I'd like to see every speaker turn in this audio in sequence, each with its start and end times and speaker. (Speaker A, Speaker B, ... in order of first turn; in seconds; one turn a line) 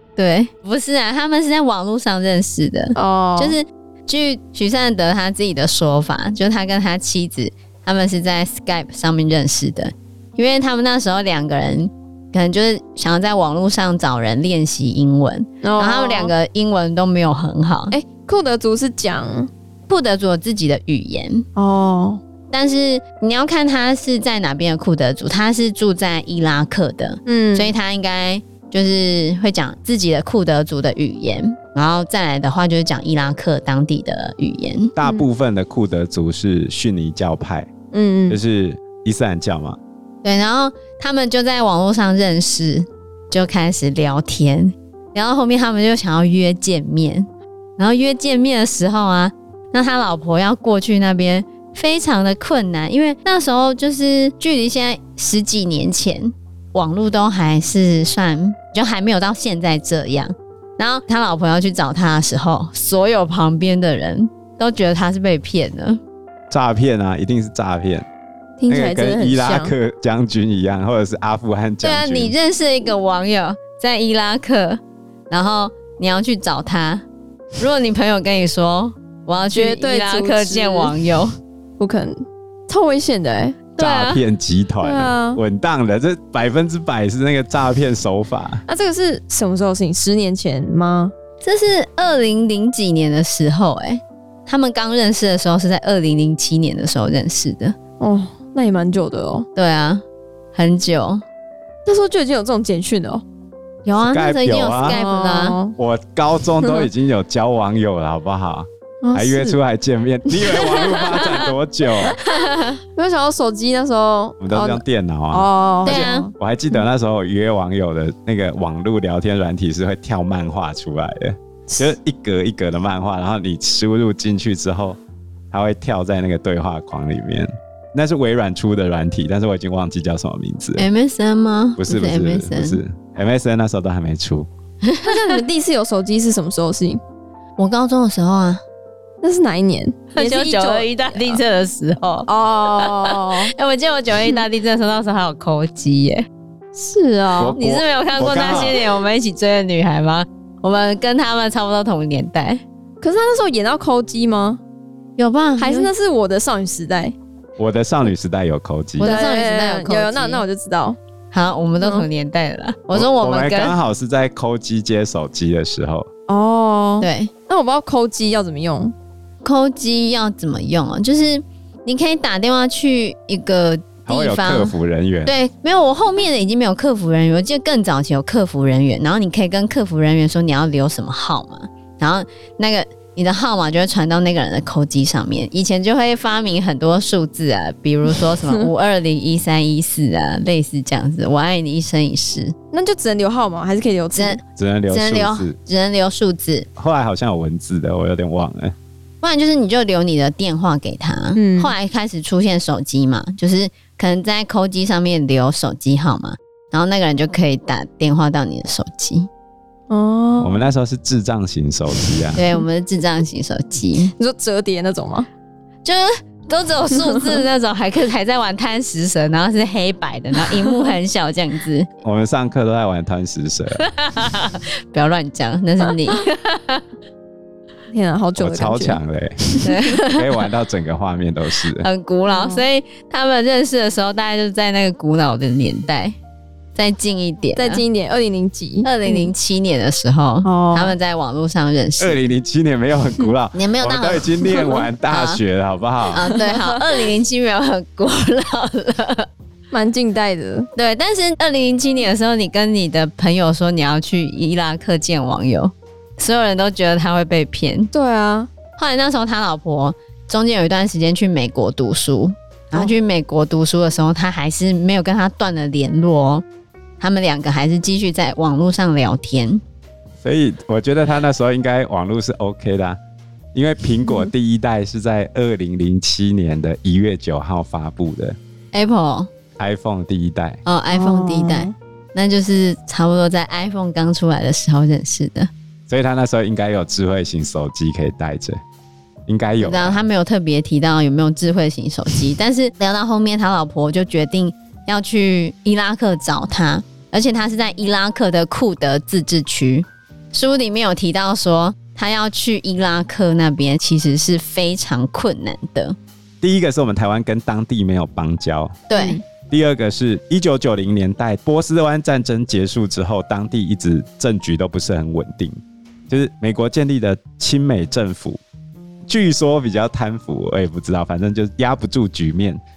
Speaker A: 0.2-18.0
Speaker B: 3.0-3.6
Speaker B: 15.6-16.3
Speaker B: 17.9-19.5
Speaker A: 19.9-21.4
Speaker B: 21.6-22.2
Speaker A: 22.5-34.9
Speaker B: 27.3-27.7
Speaker C: 35.0-37.7
Speaker B: 37.9-38.4
Speaker C: 38.3-39.8
Speaker A: 40.2-66.0
Speaker C: 66.5-68.1
Speaker B: 68.6-69.7
Speaker C: 68.7-72.3
Speaker A: 71.8-77.0
Speaker A: 77.6-81.3
Speaker B: 79.5-80.9
Speaker B: 81.8-83.6
Speaker A: 83.8-84.2
Speaker C: 83.8-88.6
Speaker B: 84.8-85.4
Speaker B: 88.7-91.1
Speaker A: 91.4-97.8
Speaker B: 98.0-99.5
Speaker A: 99.5-100.0
Speaker A: 100.5-101.2
Speaker B: 101.8-103.2
Speaker A: 103.9-105.6
Speaker C: 104.0-105.0
Speaker B: 104.9-105.8
Speaker C: 105.8-112.2
Speaker B: 109.0-109.6
Speaker B: 110.3-111.4
Speaker A: 112.1-112.8
Speaker B: 113.0-116.3
Speaker C: 114.4-125.0
Speaker A: 115.8-116.3
Speaker C: 125.5-130.9
Speaker A: 130.8-132.8
Speaker C: 131.8-134.5
Speaker A: 134.8-135.4
Speaker B: 135.1-137.0
Speaker A: 137.6-138.6
Speaker B: 139.2-141.4
Speaker A: 140.1-146.3
Speaker B: 142.3-143.5
Speaker B: 146.7-147.6
Speaker C: 147.4-148.8
Speaker A: 147.6-152.6
Speaker B: 153.0-154.6
Speaker A: 155.2-155.9
Speaker B: 155.6-157.2
Speaker C: 157.6-159.2
Speaker A: 159.0-160.4
Speaker B: 159.0-161.0
Speaker A: 161.3-163.8
Speaker B: 161.8-162.1
Speaker C: 162.9-166.1
Speaker B: 166.3-168.9
Speaker A: 167.0-167.3
Speaker A: 169.4-192.6
Speaker C: 174.1-175.3
Speaker B: 192.7-194.4
Speaker A: 194.1-196.7
Speaker C: 194.6-195.6
Speaker C: 196.8-198.8
Speaker A: 199.2-209.3
Speaker B: 201.4-201.7
Speaker B: 209.9-210.7
Speaker C: 210.4-212.4
Speaker A: 212.3-214.1
Speaker B: 214.2-215.3
Speaker A: 215.8-221.9
Speaker C: 222.0-223.8
Speaker A: 223.8-226.8
Speaker B: 227.9-229.7
Speaker C: 228.4-231.9
Speaker A: 229.6-230.3
Speaker A: 231.8-236.2
Speaker B: 232.3-232.6
Speaker A: 236.8-237.8
Speaker B: 237.6-239.3
Speaker A: 238.8-242.2
Speaker B: 240.4-240.9
Speaker C: 242.0-246.4
Speaker A: 243.6-245.4
Speaker A: 246.1-249.3
Speaker B: 246.3-246.8
Speaker B: 249.7-250.7
Speaker A: 250.8-257.9
Speaker B: 257.9-258.5
Speaker A: 258.8-266.4
Speaker A: 267.0-269.6
Speaker C: 270.2-273.0
Speaker C: 273.5-278.4
Speaker A: 278.7-279.3
Speaker C: 279.6-280.6
Speaker A: 280.6-285.5
Speaker B: 280.9-281.7
Speaker C: 285.9-288.6
Speaker C: 289.3-290.0
Speaker A: 289.6-306.0
Speaker C: 306.4-308.8
Speaker A: 308.9-309.2
Speaker B: 308.9-309.2
Speaker C: 309.5-315.6
Speaker C: 316.1-318.4
Speaker C: 319.1-322.6